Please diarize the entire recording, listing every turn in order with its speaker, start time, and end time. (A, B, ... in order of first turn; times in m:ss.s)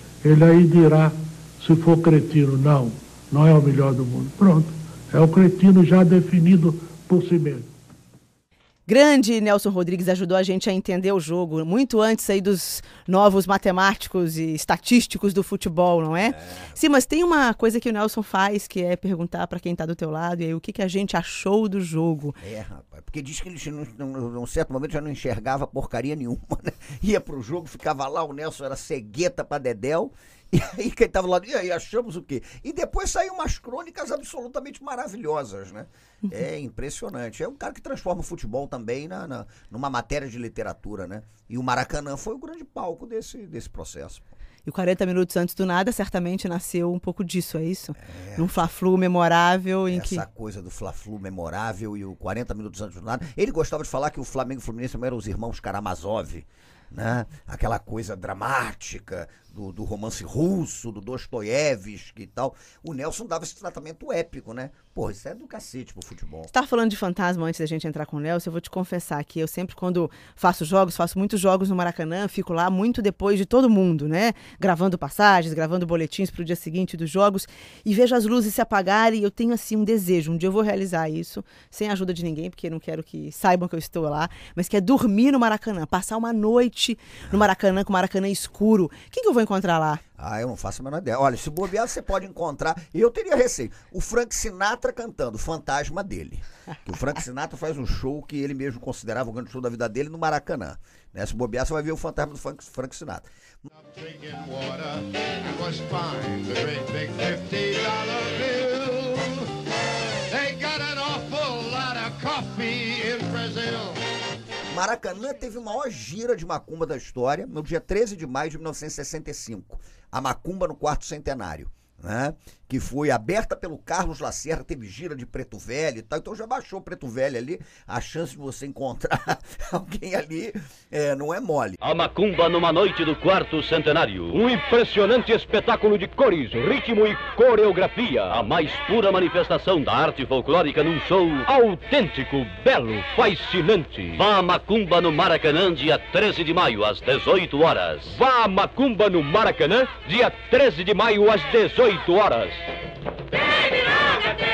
0:00.2-0:07.7 A
0:08.9-0:22.4 B
0:16.2-0:16.8 C
0:22.4-0:44.3 C
0:44.6-0:50.2 B
0:48.0-0:48.6 C
0:49.9-1:06.5 C
1:06.5-1:30.0 B
1:30.2-1:43.3 C
1:43.7-1:49.5 D
1:50.3-1:54.0 D
1:54.7-2:11.8 C
2:11.8-2:32.7 E